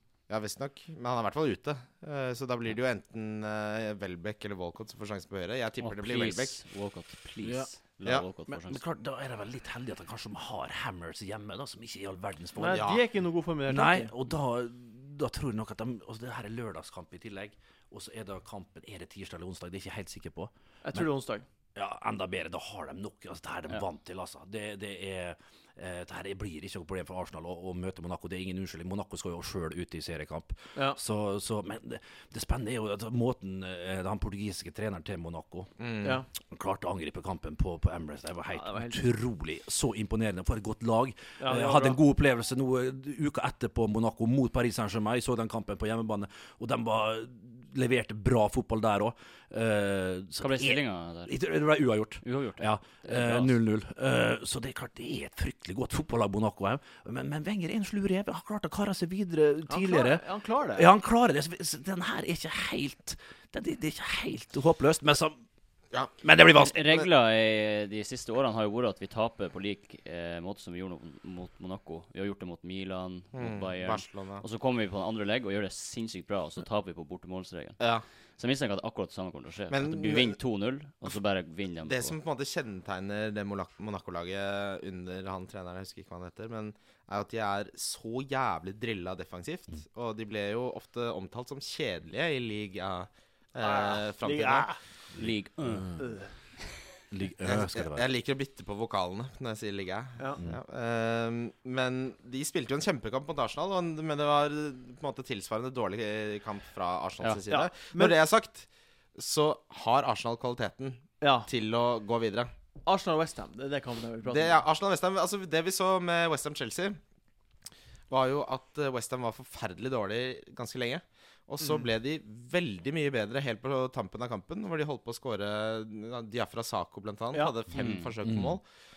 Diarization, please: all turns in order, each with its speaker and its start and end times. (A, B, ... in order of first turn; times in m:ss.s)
0:00.3-0:06.6 A
0:05.8-0:08.8 B
0:07.4-0:07.7 C
0:08.5-0:13.0 C
0:12.6-0:14.1 D
0:12.7-0:13.0 A
0:13.7-0:21.1 C
0:20.8-0:21.4 D
0:21.7-0:35.7 C
0:35.8-0:36.2 A
0:36.5-1:05.4 C
0:38.5-0:39.0 D
0:41.4-0:42.0 D
0:50.4-0:51.3 B
0:52.2-0:53.5 B
0:59.7-1:00.9 D
1:06.2-1:06.8 C
1:06.6-1:17.8 B
1:13.3-1:14.4 A
1:17.8-1:18.0 A
1:18.4-1:22.1 B
1:19.7-1:20.4 A
1:21.8-1:34.7 A
1:33.6-1:34.8 D
1:35.2-1:36.0 C
1:35.2-1:36.1 B
1:36.0-1:36.3 D
1:37.1-1:38.0 C
1:37.4-1:52.5 A
1:47.5-1:48.2 D
1:51.2-1:51.5 D
1:52.8-1:54.6 D
1:54.3-1:57.0 A
1:58.1-2:08.6 A
2:07.7-2:08.1 B
2:08.2-2:08.6 C